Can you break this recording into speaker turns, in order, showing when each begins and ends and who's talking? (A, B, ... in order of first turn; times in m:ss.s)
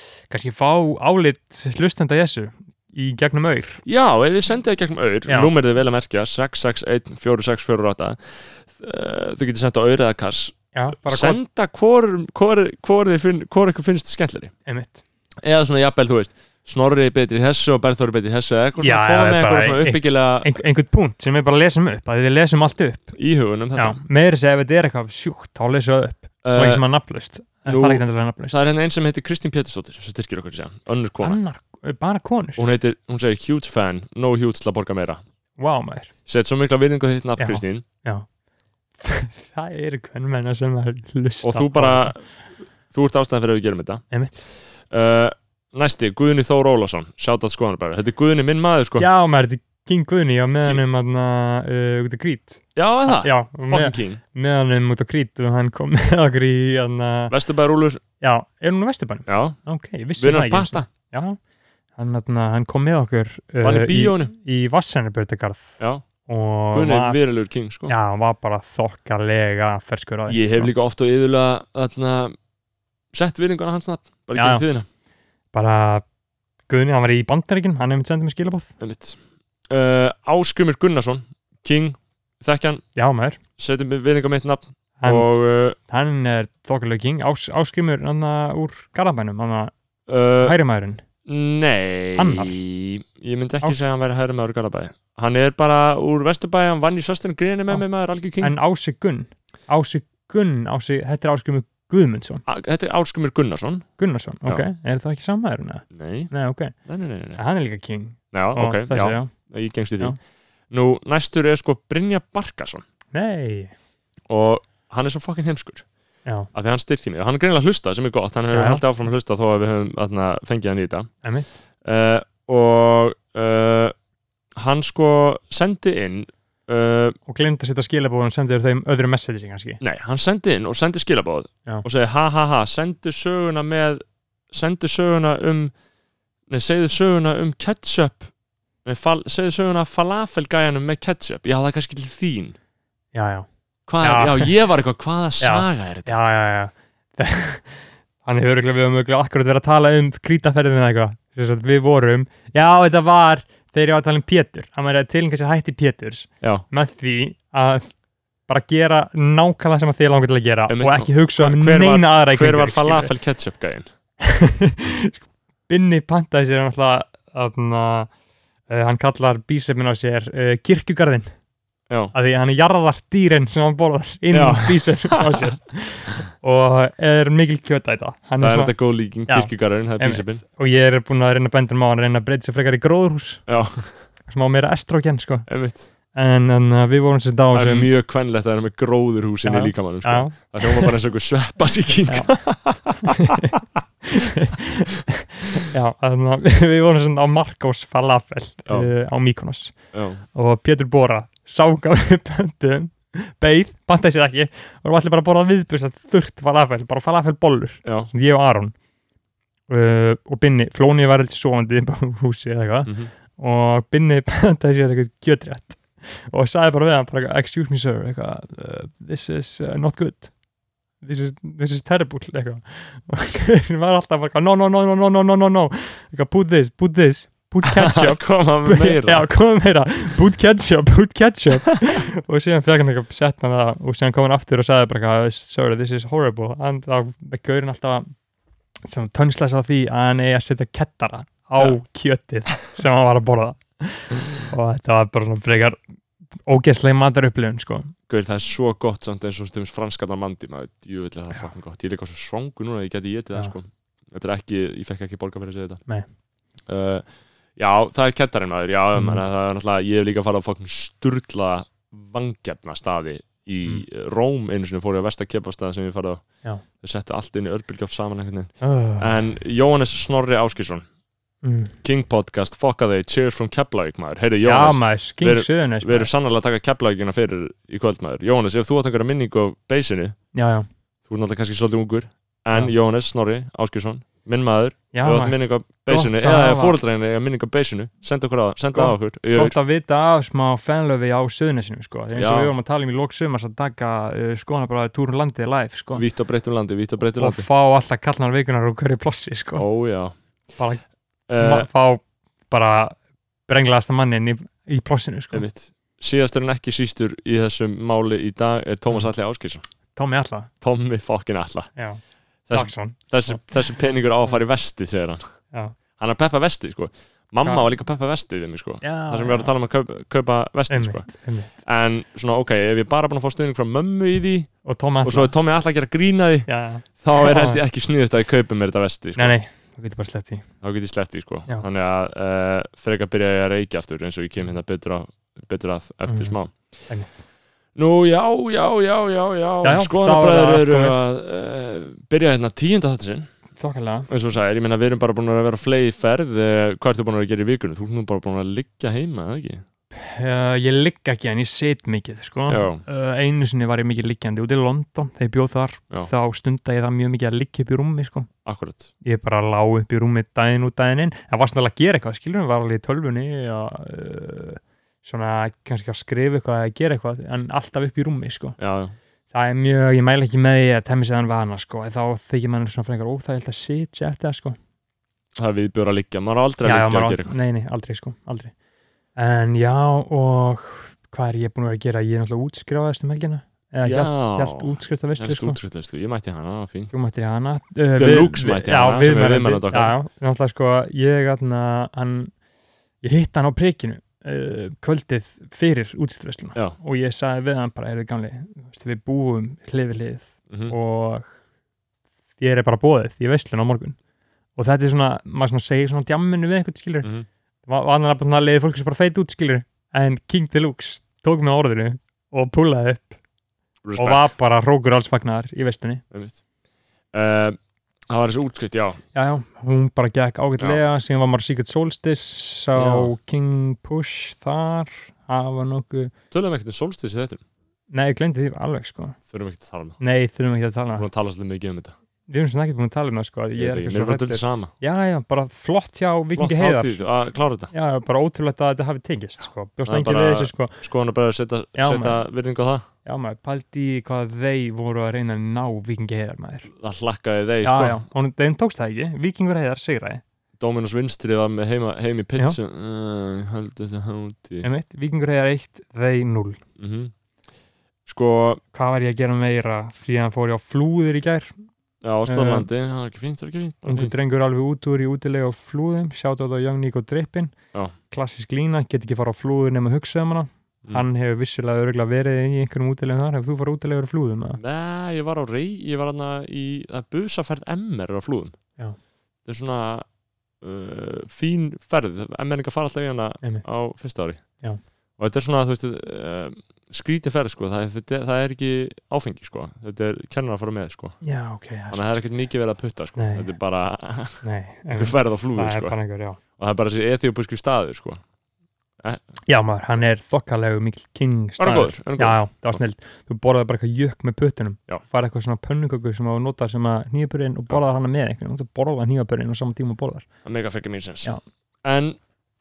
0:00.3-0:03.8 A
0:03.8-0:14.5 B
0:10.7-0:11.4 A
0:14.6-0:15.0 A
0:15.4-0:20.6 B
0:18.8-0:23.2 A
0:23.2-0:24.0 B
0:23.8-0:28.6 A
0:26.4-0:26.8 B
0:27.6-0:31.4 B
0:31.2-0:32.6 A
0:32.6-0:35.2 B
0:35.6-0:36.1 A
0:36.3-0:37.8 B
0:37.4-0:38.2 A
0:39.0-0:42.1 A
0:41.4-0:42.2 B
0:42.9-0:44.0 B
0:44.1-0:44.4 A
0:44.9-0:49.1 B
0:49.0-0:57.3 A
0:52.8-0:54.2 B
0:57.3-0:58.0 B
0:58.2-1:01.4 A
0:59.3-0:59.6 B
1:00.2-1:00.9 B
1:02.0-1:07.2 A
1:03.6-1:04.3 B
1:06.7-1:07.9 B
1:07.9-1:10.7 A
1:10.3-1:12.4 B
1:13.1-1:14.8 B
1:14.3-1:14.6 A
1:15.5-1:16.0 A
1:16.7-1:18.7 A
1:18.8-1:19.2 B
1:19.7-1:22.8 B
1:22.9-1:23.4 A
1:23.6-1:25.8 B
1:25.0-1:29.7 A
1:30.1-1:30.5 B
1:30.4-1:31.0 A
1:31.2-1:38.6 B
1:32.2-1:32.6 A
1:38.4-1:42.4 A
1:42.4-1:43.8 B
1:44.0-1:46.8 A
1:45.9-1:46.3 B
1:46.8-1:47.4 B
1:47.4-1:49.3 A
1:48.3-1:50.2 B
1:50.7-1:52.8 B
1:53.1-1:53.7 A
1:54.3-1:55.8 B
1:56.2-1:56.5 A
1:56.5-2:01.1 B
1:58.5-1:58.8 A
2:01.2-2:01.5 A
2:01.8-2:03.9 B
2:04.6-2:07.2 B
2:07.3-2:09.8 A
2:09.8-2:15.7 B
2:16.5-2:18.3 B
2:18.8-2:22.5 B
2:23.1-2:23.5 A
2:23.9-2:26.1 B
2:24.0-2:24.5 A
2:25.4-2:37.9 A
2:38.5-2:43.1 A
2:40.7-2:43.8 B
2:44.2-2:48.1 A
2:48.7-2:51.3 A
2:52.1-3:03.6 A
2:54.3-2:55.4 B
2:58.4-3:00.4 B
3:03.5-3:04.0 B
3:04.2-3:05.5 A
3:05.5-3:05.9 B
3:06.1-3:07.9 A
3:07.5-3:13.5 B
3:09.4-3:10.9 A
3:12.1-3:13.3 A
3:14.2-3:28.7 A
3:19.9-3:20.2 B
3:27.8-3:28.1 B
3:29.7-3:40.3 A
3:32.8-3:33.1 B
3:41.0-3:58.1 A
3:47.6-3:49.3 B
3:58.8-4:05.8 A
4:06.4-4:07.9 A
4:08.1-4:15.8 B
4:16.7-4:30.8 B
4:18.9-4:19.2 A
4:28.6-4:29.2 A
4:31.4-4:31.7 A
4:31.8-4:40.2 B
4:34.4-4:36.1 A
4:40.3-4:40.7 A
4:41.1-4:49.5 B
4:44.9-4:46.8 A
4:48.7-4:56.0 A
4:52.1-4:52.5 B
4:55.9-4:57.4 B
4:57.2-4:59.6 A
4:59.5-5:00.1 B
5:00.6-5:00.8 A
5:01.3-5:01.7 B
5:01.4-5:03.0 A
5:03.5-5:05.4 A
5:05.3-5:09.6 B
5:10.0-5:10.5 A
5:10.6-5:11.7 B
5:11.8-5:13.5 A
5:12.5-5:15.3 B
5:16.0-5:24.5 B
5:18.8-5:19.5 A
5:20.7-5:21.6 A
5:24.6-5:25.3 A
5:25.0-5:29.4 B
5:26.5-5:27.6 A
5:29.2-5:30.5 A
5:30.6-5:36.5 B
5:36.1-5:36.4 A
5:36.9-5:37.2 A
5:37.8-5:43.3 B
5:39.6-5:41.0 A
5:43.6-5:44.1 A
5:44.1-5:49.6 B
5:49.9-5:58.3 A
5:52.5-5:52.8 B
5:58.4-5:58.9 B
5:59.0-6:08.6 A
6:08.6-6:08.9 B
6:09.3-6:14.6 A
6:15.4-6:17.3 B
6:16.6-6:18.5 A
6:19.2-6:25.6 A
6:23.8-6:26.9 B
6:26.9-6:32.3 A
6:27.9-6:29.9 B
6:33.0-6:41.3 A
6:40.5-6:40.7 B
6:42.4-6:44.0 A
6:44.6-6:47.1 A
6:47.0-6:47.3 B
6:47.6-6:53.2 A
6:53.8-6:54.3 B
6:54.0-6:56.0 A
6:56.1-6:56.4 B
6:57.1-6:57.6 B
6:58.1-6:59.0 B
6:59.1-7:06.1 A
7:02.7-7:03.1 B
7:06.3-7:07.4 B
7:07.9-7:09.2 A
7:09.3-7:10.0 B
7:10.0-7:11.0 A
7:10.9-7:11.9 B
7:12.3-7:17.0 A
7:13.6-7:14.7 B
7:16.3-7:17.7 B
7:17.7-7:20.8 A
7:19.9-7:22.8 B
7:21.8-7:22.2 A
7:23.0-7:26.7 A
7:26.8-7:28.0 B
7:27.6-7:30.2 A
7:30.6-7:34.7 B
7:34.6-7:36.6 A
7:36.8-7:37.1 B
7:38.0-7:38.6 B
7:38.7-7:41.5 A
7:42.0-7:44.2 B
7:42.3-7:42.7 A
7:43.8-7:47.6 A
7:48.1-7:54.6 A
7:54.6-7:58.6 B
7:59.4-8:00.1 B
8:00.6-8:04.4 B
8:03.4-8:03.7 A
8:05.2-8:11.2 B
8:11.2-8:12.2 A
8:11.9-8:15.9 B
8:13.2-8:13.5 A
8:14.4-8:16.4 A
8:16.6-8:18.2 B
8:19.4-8:30.3 A
8:21.6-8:22.8 B
8:30.4-8:32.2 B